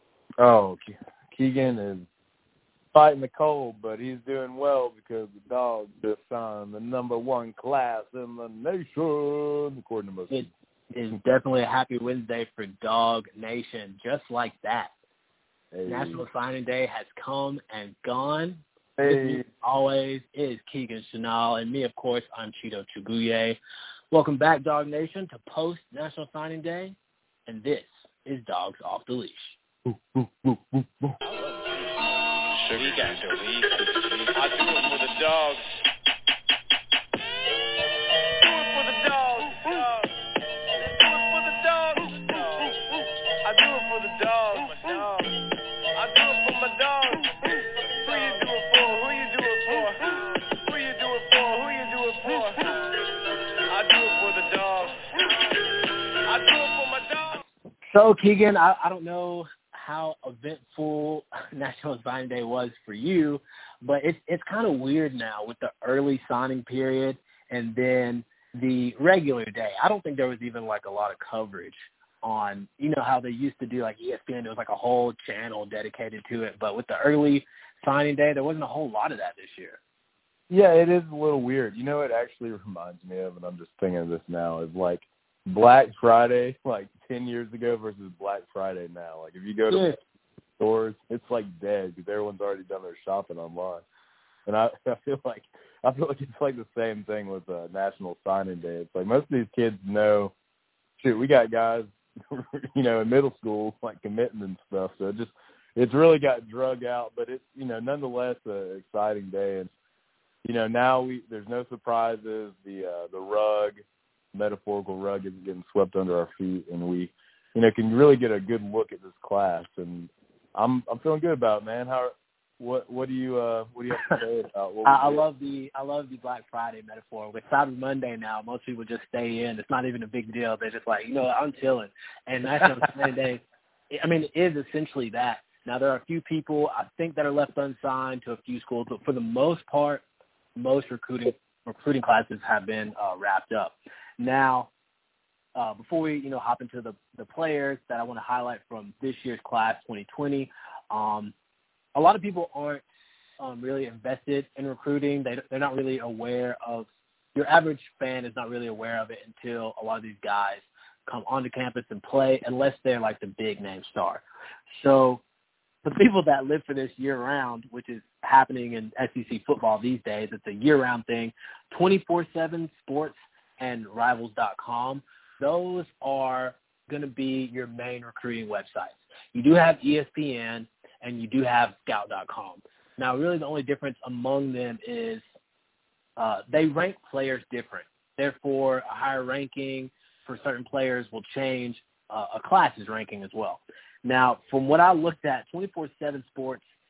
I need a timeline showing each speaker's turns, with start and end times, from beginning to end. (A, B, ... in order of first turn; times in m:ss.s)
0:00.4-0:02.1 A
0:02.9-0:10.5 A
0:10.3-0:14.9 B
0:15.7-0:16.2 A
0:15.9-0:23.6 B
0:19.0-0:19.4 A
0:24.1-0:27.0 B
0:27.5-0:29.6 B
0:29.9-0:31.2 A
0:31.2-0:32.0 C
0:32.6-0:35.0 C
0:48.0-0:48.6 C
0:57.9-1:19.8 B
1:20.5-1:29.9 A
1:29.7-1:30.0 B
1:30.6-1:33.8 A
1:34.5-1:40.3 A
1:41.0-1:49.7 A
1:50.4-1:53.8 A
1:54.3-2:05.2 A
2:04.8-2:13.4 B
2:13.9-2:20.0 B
2:20.6-2:24.7 B
2:25.6-2:31.3 B
2:32.0-2:32.8 B
2:33.4-2:45.2 B
2:45.8-3:05.2 B
3:06.2-3:16.6 B